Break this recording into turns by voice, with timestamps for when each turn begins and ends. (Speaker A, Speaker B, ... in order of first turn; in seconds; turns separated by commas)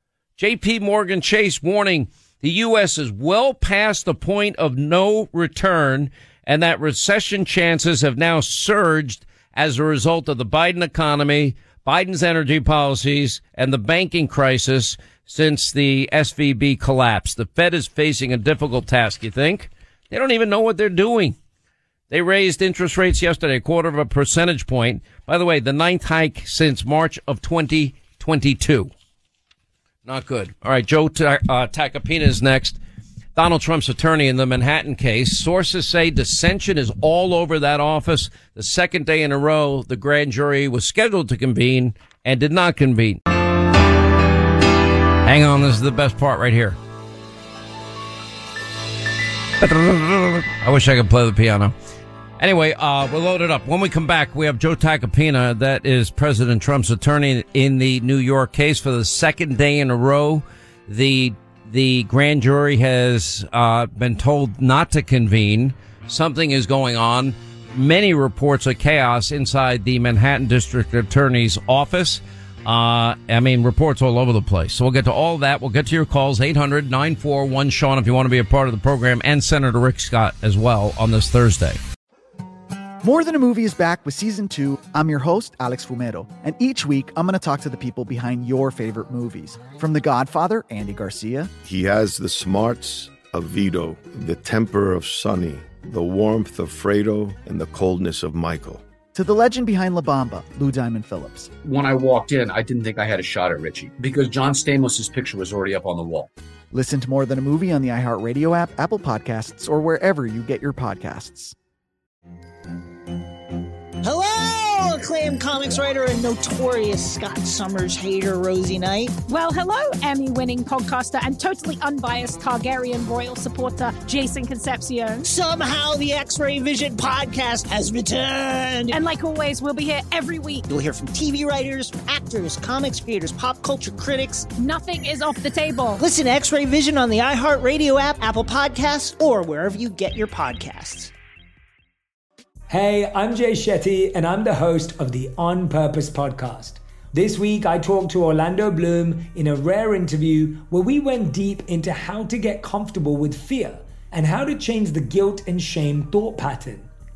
Speaker A: 0.4-21.4, Speaker A: 22.1-28.9, Speaker A: 30.0-32.8, Speaker A: 33.4-43.2, Speaker A: 45.2-46.8, Speaker A: 49.6-51.7, Speaker A: 52.4-81.8, Speaker B: 83.0-91.5, Speaker C: 91.6-98.8, Speaker B: 99.1-101.5, Speaker D: 101.6-106.3, Speaker B: 106.7-111.5, Speaker E: 114.0-119.1, Speaker F: 119.3-125.2, Speaker E: 125.2-128.9, Speaker F: 128.9-130.6, Speaker E: 130.7-134.4, Speaker F: 134.6-136.0, Speaker E: 136.0-141.1, Speaker G: 142.7-156.9